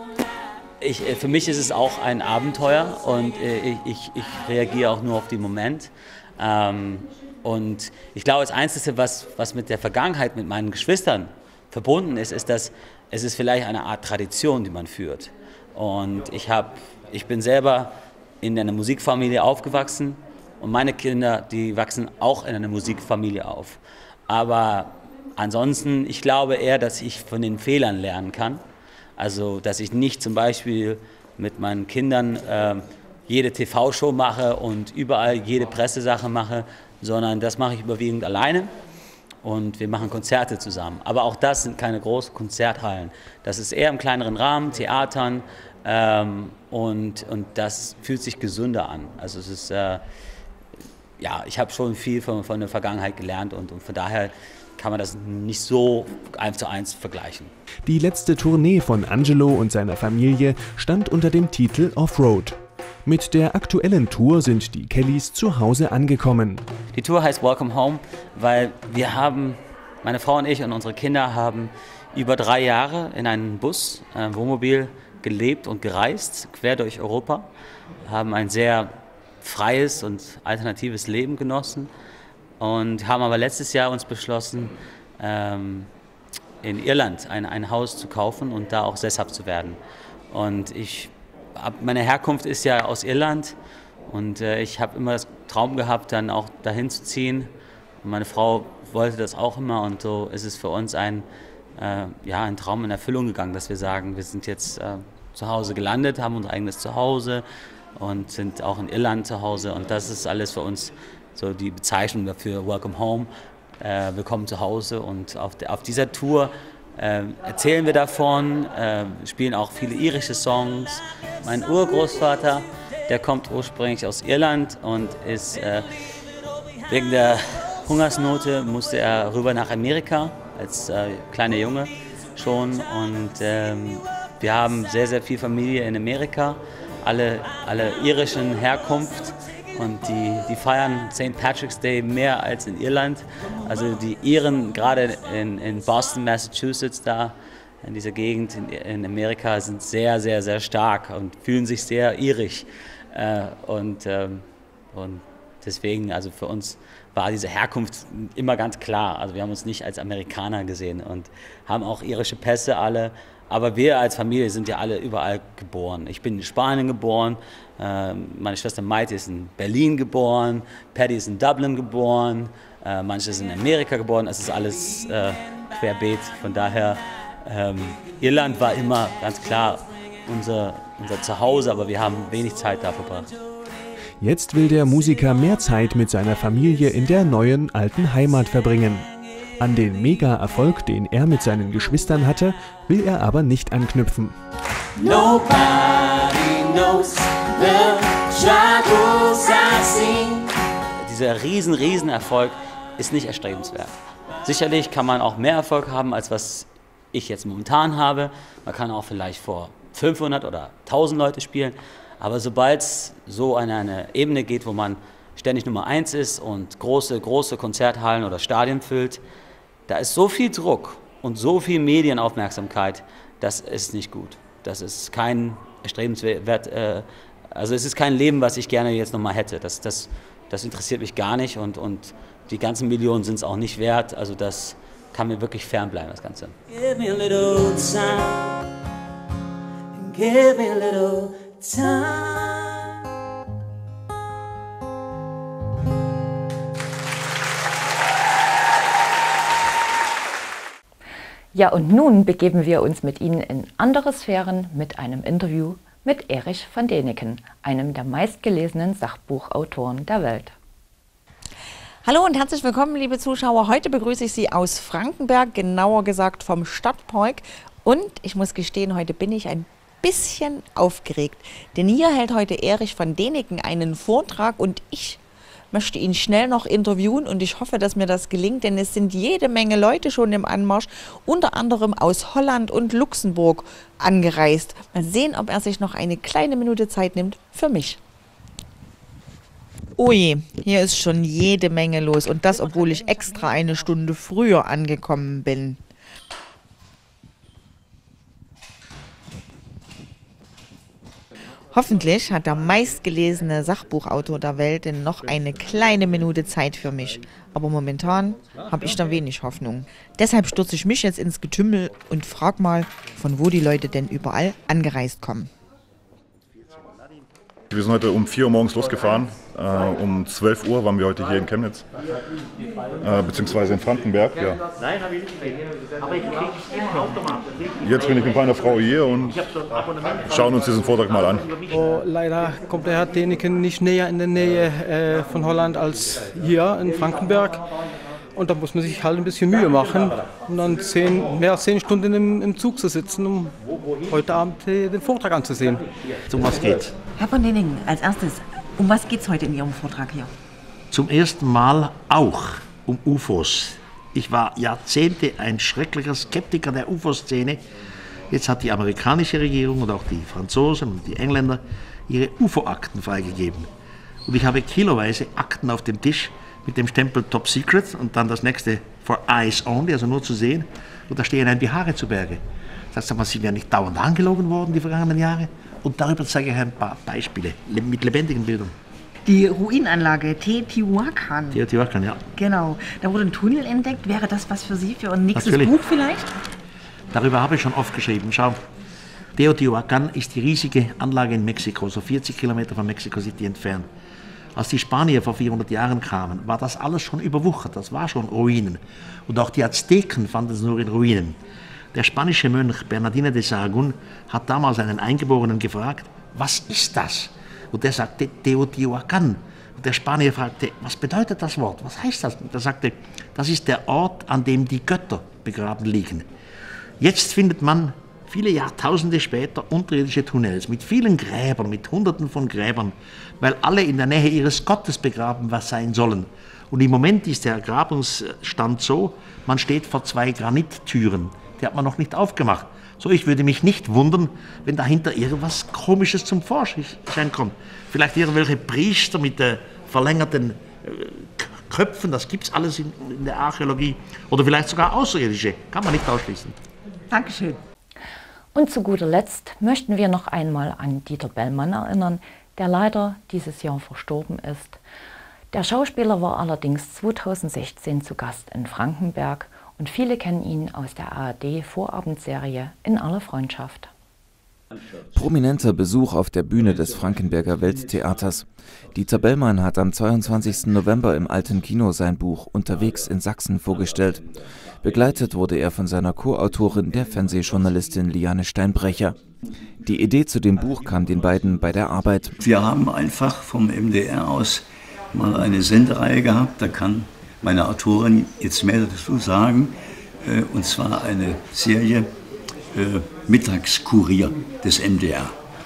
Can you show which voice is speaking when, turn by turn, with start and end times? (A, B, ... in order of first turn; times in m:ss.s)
0:00.8-0:28.6 A
0:29.2-0:38.7 A
0:39.4-0:50.0 A
0:51.2-0:57.5 A
0:57.8-1:06.6 B
1:06.9-1:17.5 A
1:18.0-1:21.9 A
1:22.6-1:25.9 A
1:26.6-1:29.8 A
1:30.3-1:33.6 A
1:34.1-1:37.5 A
1:38.0-1:47.4 A
1:48.0-2:05.9 A
2:06.9-3:03.3 A
3:04.2-3:14.4 B
3:15.0-3:20.5 C
3:21.0-3:39.2 A
3:39.9-3:56.6 A
3:56.7-3:58.6 C
3:59.9-4:03.0 C
4:11.5-4:20.5 D
4:22.0-4:35.2 E
4:35.7-4:48.0 E
4:50.0-4:55.8 E
5:01.7-5:15.5 E
5:17.7-5:21.9 F
5:23.0-5:24.6 F
5:27.8-5:29.5 F
5:30.2-5:31.6 F
5:31.7-5:37.6 G
5:38.4-5:43.5 G
5:44.1-5:45.8 G
5:46.3-5:46.9 H
5:47.2-5:50.3 E
5:50.9-5:57.6 H
5:58.3-6:03.7 H
6:04.3-6:18.8 H
6:19.3-6:21.6 E
6:21.5-6:22.2 H
6:22.4-6:26.3 E
6:25.3-6:25.8 H
6:27.1-6:28.6 H
6:29.4-6:33.9 H
6:34.6-6:41.4 H
6:41.9-6:56.3 H
6:57.0-7:26.6 H
7:27.1-7:27.6 E
7:28.5-7:34.8 D
7:35.5-7:43.9 D
7:45.1-7:54.3 I
7:54.8-7:59.2 I
7:59.8-8:02.4 I
8:02.4-8:12.1 J
8:12.7-8:15.4 J